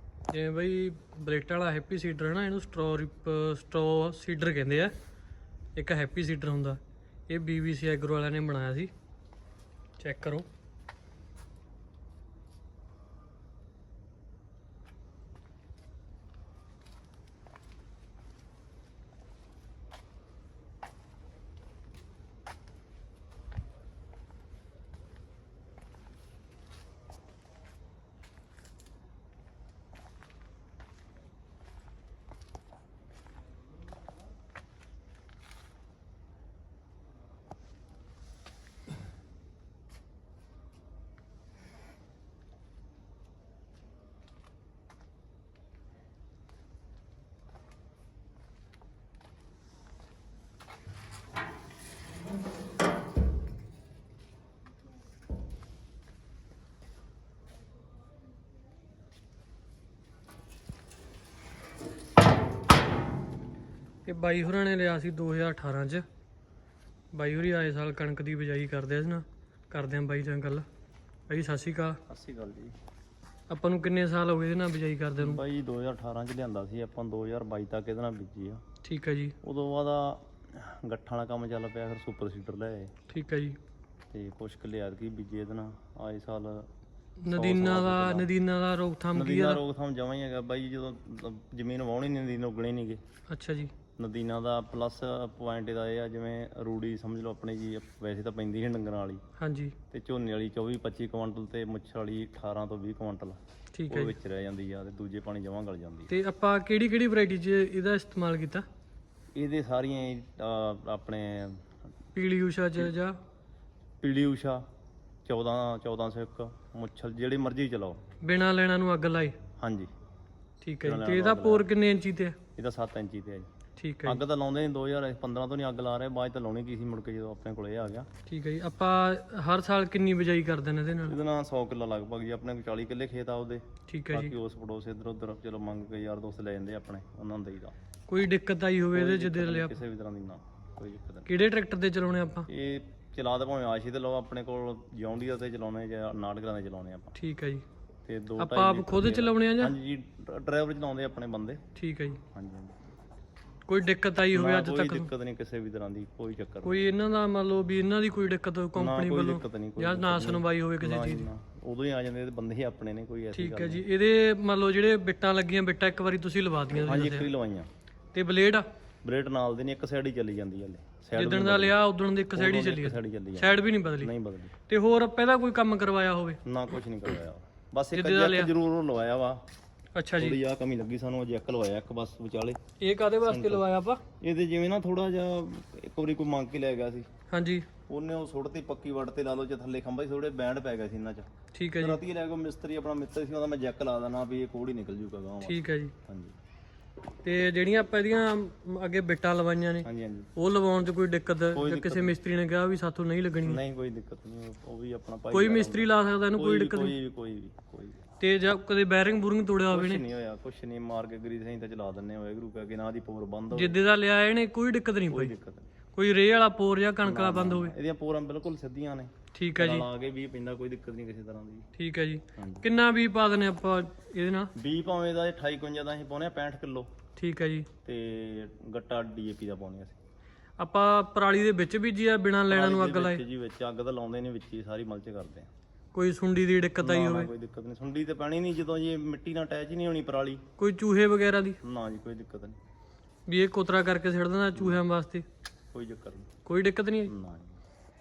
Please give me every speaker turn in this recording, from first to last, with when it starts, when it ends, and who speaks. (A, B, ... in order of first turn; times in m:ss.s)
0:00.3-0:04.9 A
0:05.8-0:08.9 A
0:10.0-0:10.4 A
1:04.0-1:06.0 A
1:07.1-1:10.6 A
1:11.3-1:12.0 A
1:12.1-1:12.7 B
1:13.5-1:15.4 A
1:15.2-1:18.6 B
1:18.8-1:19.3 A
1:19.4-1:22.9 B
1:23.1-1:23.6 A
1:24.1-1:26.7 B
1:27.2-1:29.6 A
1:27.3-1:28.3 B
1:29.1-1:33.0 B
1:33.3-1:33.7 A
1:34.0-1:39.2 B
1:39.4-1:39.7 A
1:39.9-1:46.1 B
1:43.8-1:44.1 A
1:46.1-1:48.6 A
1:49.3-1:51.6 B
1:52.1-1:53.2 A
1:54.0-1:54.6 B
1:55.2-1:58.0 B
1:58.2-1:59.4 A
1:59.6-1:59.9 B
2:00.6-2:02.4 A
2:00.8-2:01.7 B
2:02.6-2:03.5 B
2:03.8-2:04.2 A
2:04.0-2:08.1 B
2:08.3-2:11.2 A
2:11.0-2:17.8 B
2:13.9-2:14.3 A
2:18.1-2:19.8 A
2:18.9-2:21.3 B
2:21.3-2:22.5 A
2:22.5-2:27.2 B
2:27.2-2:27.6 A
2:28.0-2:31.6 B
2:28.4-2:29.7 A
2:31.8-2:32.2 A
2:32.3-2:32.9 B
2:33.7-2:35.1 A
2:34.3-2:36.8 B
2:36.6-2:41.3 A
2:38.7-2:43.8 B
2:43.3-2:47.3 A
2:46.7-2:47.7 B
2:48.1-2:48.6 A
2:49.0-2:51.8 B
2:51.1-2:54.1 A
2:52.3-2:54.5 B
2:54.7-2:56.4 A
2:56.4-2:59.4 B
2:57.9-2:58.5 A
3:00.0-3:00.4 A
3:00.2-3:02.6 B
3:02.8-3:04.0 A
3:03.2-3:03.6 B
3:04.2-3:07.1 B
3:07.3-3:07.6 A
3:07.9-3:16.3 B
3:11.5-3:12.0 A
3:15.4-3:15.9 A
3:17.2-3:23.6 A
3:19.8-3:20.3 B
3:21.5-3:22.2 B
3:23.4-3:28.0 B
3:25.3-3:26.9 A
3:28.2-3:30.0 A
3:29.7-3:33.8 B
3:33.5-3:35.3 A
3:35.1-3:35.7 B
3:35.9-3:37.7 A
3:37.0-3:41.7 B
3:39.3-3:39.8 A
3:41.8-3:44.5 A
3:42.3-3:42.6 B
3:44.5-3:46.9 B
3:47.2-3:47.7 A
3:47.8-3:50.0 B
3:50.6-3:53.2 A
3:52.5-3:55.5 B
3:55.9-3:57.3 A
3:56.8-4:00.4 B
4:00.6-4:01.6 A
4:01.6-4:02.6 B
4:03.3-4:05.2 A
4:04.5-4:04.8 B
4:05.7-4:06.3 B
4:06.4-4:07.1 A
4:07.0-4:07.6 B